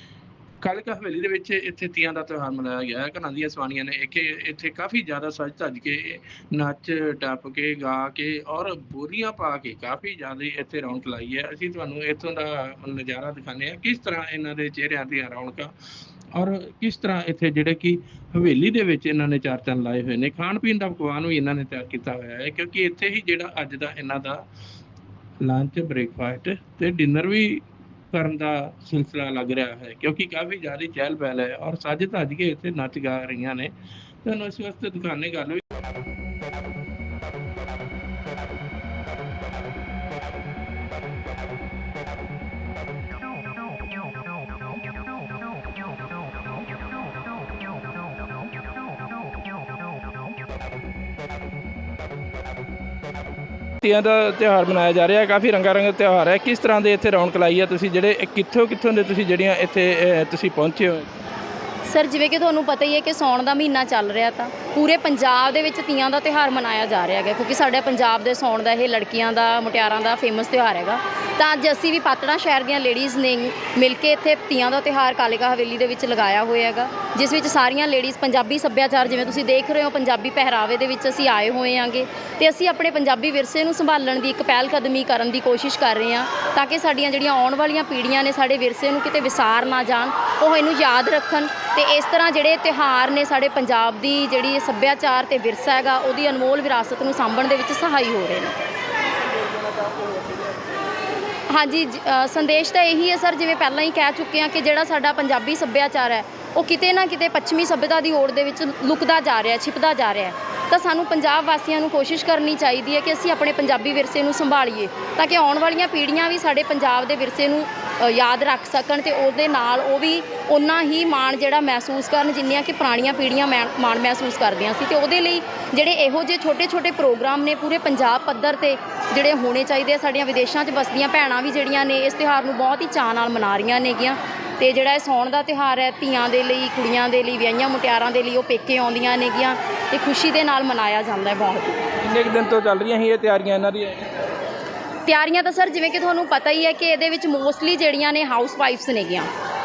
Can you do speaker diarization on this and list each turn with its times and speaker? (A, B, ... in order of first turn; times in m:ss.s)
0:00.6-0:15.7 A
0:16.3-0:24.4 A
0:25.4-0:33.7 A
0:34.2-0:35.6 A
0:53.8-1:01.0 B
0:58.8-0:59.1 A
1:01.8-1:38.6 C
1:39.6-1:40.4 B
1:41.5-2:21.9 C
2:22.0-2:24.0 B
2:25.0-2:29.3 C